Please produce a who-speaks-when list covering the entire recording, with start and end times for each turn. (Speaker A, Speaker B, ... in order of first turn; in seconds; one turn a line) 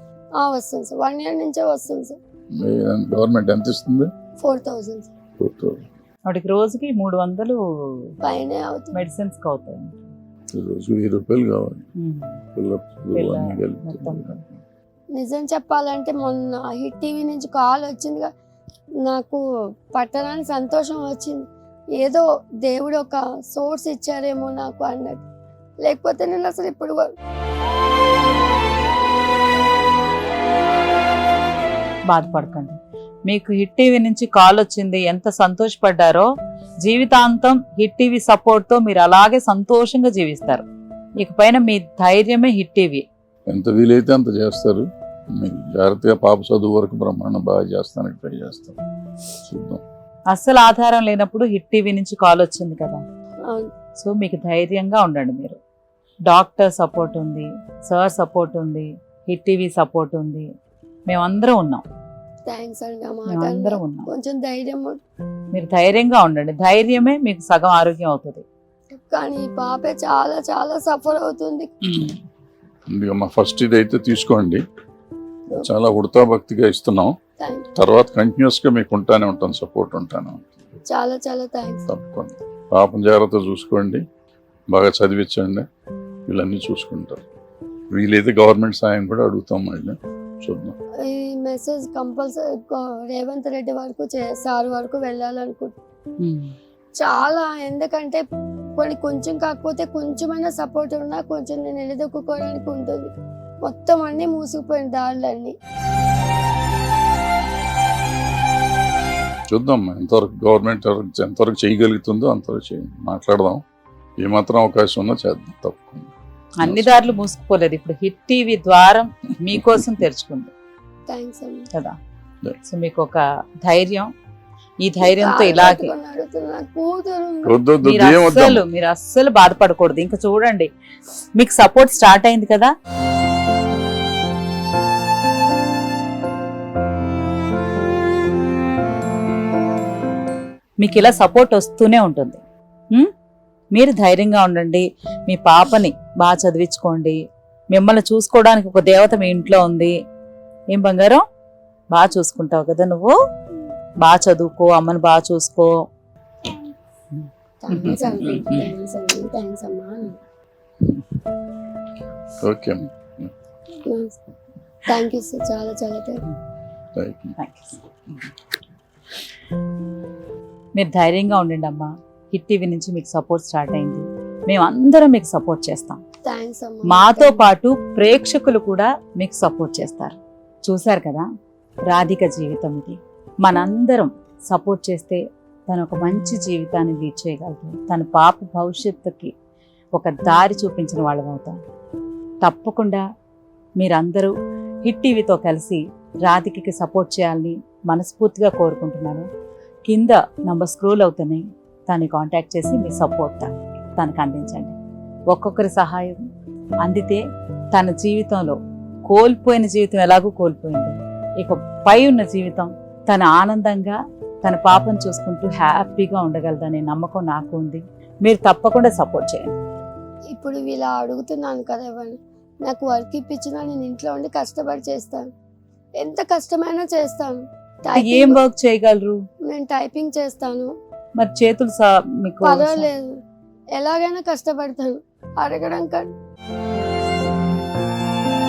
Speaker A: 0.4-2.2
Speaker B: 2.5-4.1
Speaker A: 4.4-5.1
Speaker B: 5.4-5.8
Speaker C: 6.3-8.1
Speaker A: 8.2-8.9
Speaker C: 8.9-10.1
Speaker B: 10.5-11.8
Speaker C: 12.0-12.4
Speaker B: 12.6-14.6
Speaker C: 13.1-14.4
Speaker A: 15.1-18.3
Speaker A: 19.0-21.4
Speaker A: 22.0-25.2
Speaker A: 25.8-27.1
Speaker C: 32.1-36.3
Speaker C: 36.8-40.6
Speaker C: 41.2-43.0
Speaker B: 43.5-44.9
Speaker B: 45.4-48.8
Speaker B: 49.5-49.8
Speaker C: 50.3-53.0
Speaker A: 53.5-53.7
Speaker C: 54.0-55.6
Speaker C: 56.3-60.5
Speaker C: 61.1-61.8
Speaker A: 62.5-65.0
Speaker C: 63.3-64.1
Speaker C: 65.5-68.4
Speaker A: 68.9-71.7
Speaker C: 71.8-72.2
Speaker B: 72.9-74.6
Speaker B: 75.6-77.1
Speaker A: 77.4-77.7
Speaker B: 77.8-80.5
Speaker A: 80.9-81.8
Speaker B: 81.9-84.0
Speaker B: 84.7-85.7
Speaker B: 86.3-87.3
Speaker B: 87.9-90.8
Speaker A: 91.0-95.8
Speaker C: 96.2-96.5
Speaker A: 97.0-98.2
Speaker A: 98.8-103.1
Speaker A: 103.6-105.5
Speaker B: 109.5-113.6
Speaker B: 114.2-116.1
Speaker C: 116.6-120.5
Speaker B: 116.6-117.2
Speaker B: 119.5-119.9
Speaker A: 121.1-121.6
Speaker C: 122.7-124.1
Speaker C: 124.8-125.9
Speaker A: 125.0-127.6
Speaker B: 127.5-128.6
Speaker C: 127.8-130.7
Speaker C: 131.4-132.7
Speaker C: 140.8-142.4
Speaker C: 143.7-147.2
Speaker C: 147.7-149.9
Speaker C: 150.7-151.2
Speaker C: 151.9-153.1
Speaker C: 154.0-155.7
Speaker A: 157.6-160.2
Speaker B: 157.8-158.6
Speaker B: 162.4-163.3
Speaker A: 163.9-164.2
Speaker A: 164.9-166.2
Speaker B: 167.0-167.3
Speaker C: 167.4-167.8
Speaker C: 170.8-176.0
Speaker A: 176.3-177.4
Speaker C: 176.9-181.2
Speaker C: 181.9-189.3
Speaker C: 190.0-191.6
Speaker C: 192.4-193.0
Speaker C: 193.8-194.3
Speaker C: 194.8-199.3
Speaker C: 199.9-204.8
Speaker C: 205.3-206.2
Speaker C: 206.8-207.2
Speaker C: 207.7-219.5
Speaker A: 220.3-225.3
Speaker A: 226.0-228.4
Speaker C: 228.0-229.2
Speaker A: 229.5-230.7
Speaker C: 231.2-232.9
Speaker A: 232.4-233.1
Speaker A: 233.8-236.1